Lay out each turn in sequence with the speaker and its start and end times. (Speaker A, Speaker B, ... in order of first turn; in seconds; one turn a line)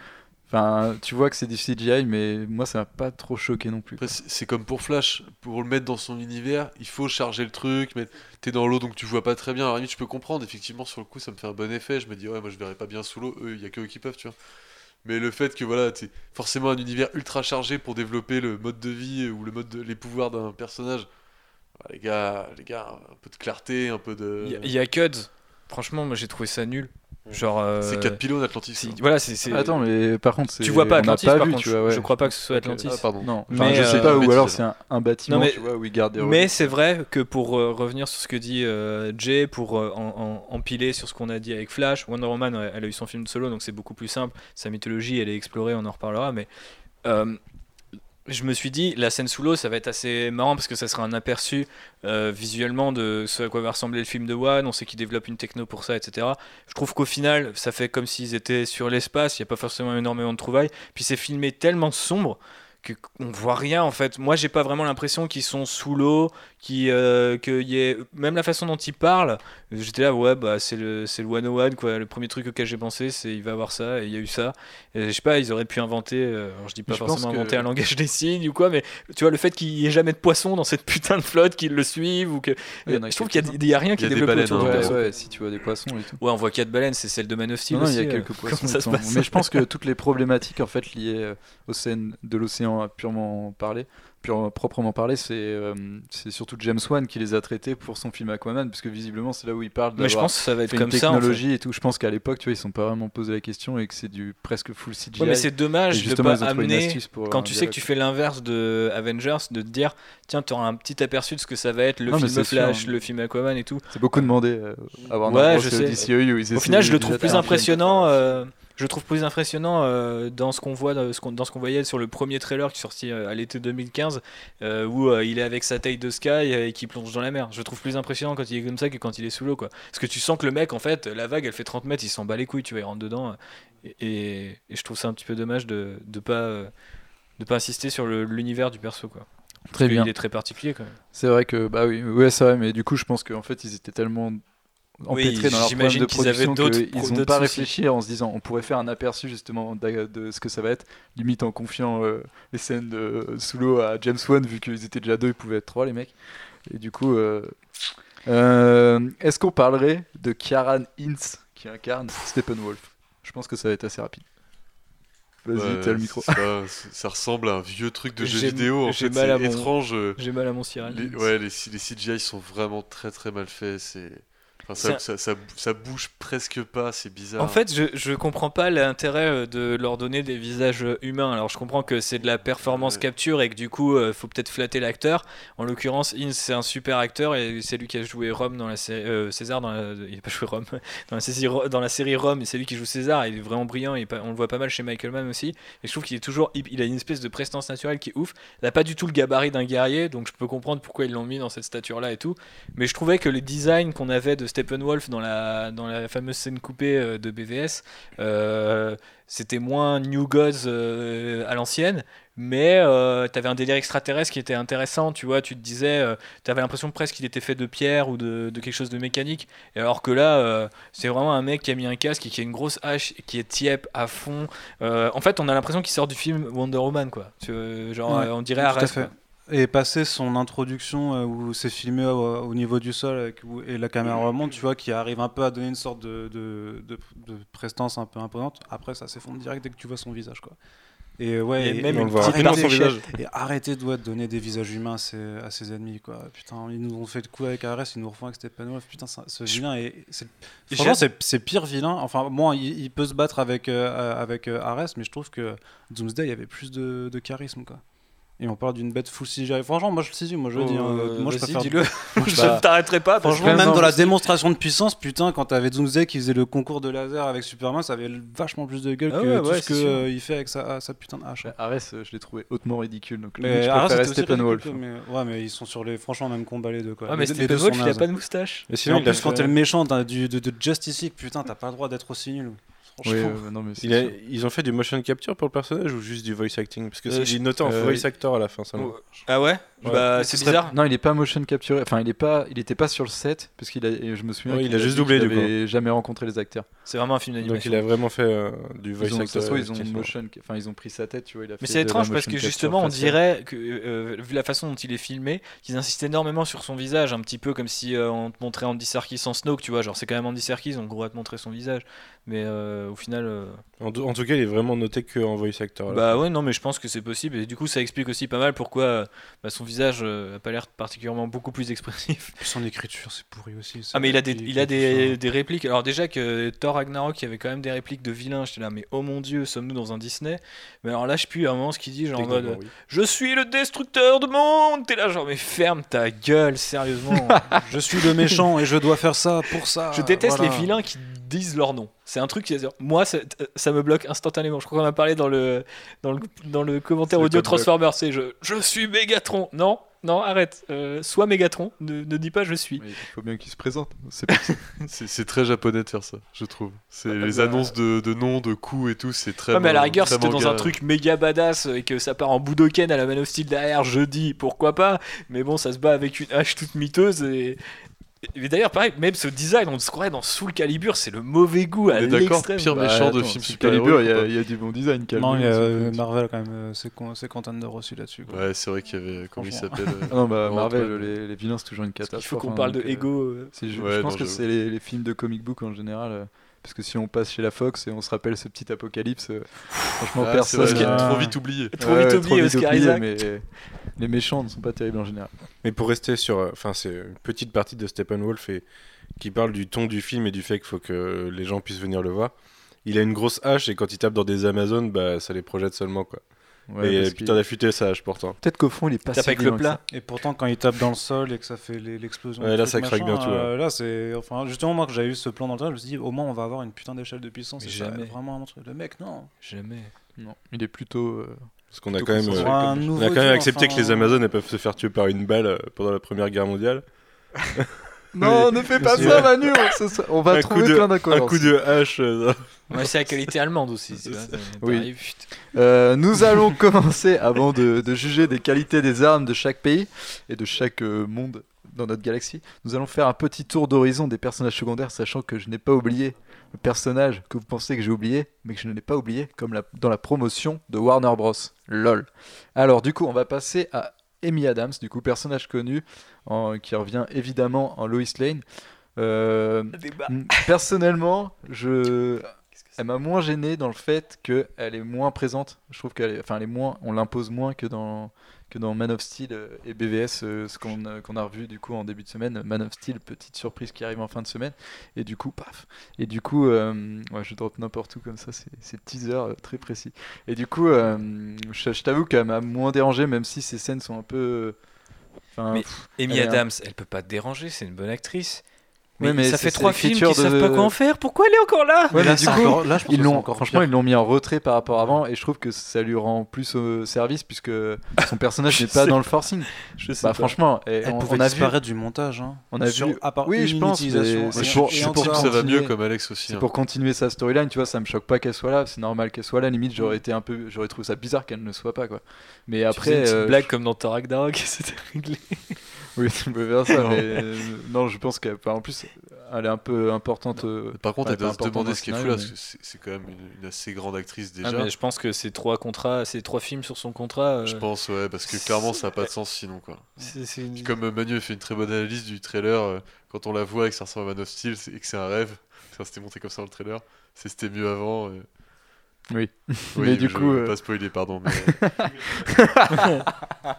Speaker A: 0.5-4.1
Speaker B: 4.0-14.3
Speaker B: 15.0-21.1
Speaker B: 21.8-24.7
Speaker C: 24.4-28.2
Speaker B: 27.3-29.0
Speaker C: 28.7-29.7
Speaker A: 29.5-36.7
Speaker C: 30.6-34.4
Speaker B: 32.9-34.6
Speaker C: 35.3-46.5
Speaker C: 47.0-47.4
Speaker C: 48.3-85.1
Speaker A: 76.9-77.7
Speaker A: 82.9-83.6
Speaker B: 84.0-85.0
Speaker A: 84.5-86.2
Speaker C: 86.2-89.6
Speaker A: 87.7-107.9
Speaker C: 100.0-101.4
Speaker C: 105.2-114.3
Speaker A: 112.1-113.0
Speaker A: 113.9-117.8
Speaker C: 115.2-136.7
Speaker B: 117.3-118.2
Speaker C: 137.4-141.0
Speaker A: 139.7-140.1
Speaker A: 141.1-144.4
Speaker A: 145.0-164.3
Speaker C: 145.1-147.7
Speaker A: 165.4-166.4
Speaker B: 165.5-177.6
Speaker C: 168.2-171.2
Speaker C: 177.4-229.1
Speaker B: 182.6-183.1
Speaker D: 228.1-240.6
Speaker D: 241.2-257.8
Speaker C: 241.6-242.9
Speaker E: 241.9-243.0
Speaker C: 250.7-251.0
Speaker D: 258.4-271.5
Speaker C: 260.6-264.2
Speaker A: 262.3-262.6
Speaker A: 263.4-263.9
Speaker C: 269.1-270.1
Speaker A: 271.4-274.8
Speaker D: 273.4-278.1
Speaker C: 277.1-279.4
Speaker E: 278.7-279.5
Speaker D: 278.8-283.5
Speaker A: 283.0-284.1
Speaker E: 283.8-289.3
Speaker C: 287.1-287.4
Speaker A: 287.6-288.1
Speaker C: 289.1-290.8
Speaker A: 289.8-296.7
Speaker E: 294.5-295.5
Speaker C: 296.9-297.8
Speaker E: 297.4-300.1
Speaker A: 299.0-303.2
Speaker C: 301.6-313.6
Speaker E: 313.8-316.2
Speaker C: 315.9-322.4
Speaker D: 322.4-325.2
Speaker C: 323.9-337.5
Speaker D: 337.6-340.7
Speaker C: 339.9-352.9
Speaker A: 347.1-347.7
Speaker A: 352.8-354.6
Speaker B: 354.9-360.7
Speaker C: 357.2-357.6
Speaker C: 359.5-367.6
Speaker A: 360.0-360.6
Speaker C: 368.2-372.7
Speaker B: 371.9-374.3
Speaker A: 372.7-376.0
Speaker D: 375.1-378.7
Speaker B: 378.3-381.1
Speaker D: 379.4-380.2
Speaker A: 380.1-395.3
Speaker C: 382.1-383.5
Speaker B: 383.7-384.4
Speaker B: 390.2-391.7
Speaker D: 390.6-391.4
Speaker C: 391.8-393.2
Speaker E: 395.6-408.4
Speaker A: 406.7-407.4
Speaker A: 408.4-409.8
Speaker C: 409.1-409.8
Speaker D: 409.9-419.3
Speaker E: 412.4-413.5
Speaker C: 417.6-418.1
Speaker C: 419.4-419.9
Speaker A: 420.2-422.9
Speaker E: 421.7-427.6
Speaker D: 422.3-424.2
Speaker A: 428.1-431.5
Speaker E: 428.6-429.7
Speaker D: 428.8-429.3
Speaker E: 430.3-432.8
Speaker C: 432.7-435.3
Speaker A: 434.6-458.4
Speaker A: 459.0-484.6
Speaker C: 459.7-460.5
Speaker A: 485.3-486.4
Speaker C: 485.5-488.4
Speaker C: 489.0-492.6
Speaker A: 489.0-490.8
Speaker D: 491.9-493.7
Speaker A: 491.9-501.6
Speaker C: 498.5-499.0
Speaker C: 499.7-500.4
Speaker D: 500.8-505.5
Speaker A: 502.5-513.5
Speaker B: 504.3-506.5
Speaker C: 512.7-515.6
Speaker A: 516.0-522.3
Speaker B: 520.8-524.7
Speaker C: 524.4-527.6
Speaker B: 527.4-538.3
Speaker C: 528.2-529.1
Speaker C: 530.0-530.7
Speaker A: 539.1-543.1
Speaker B: 539.7-541.6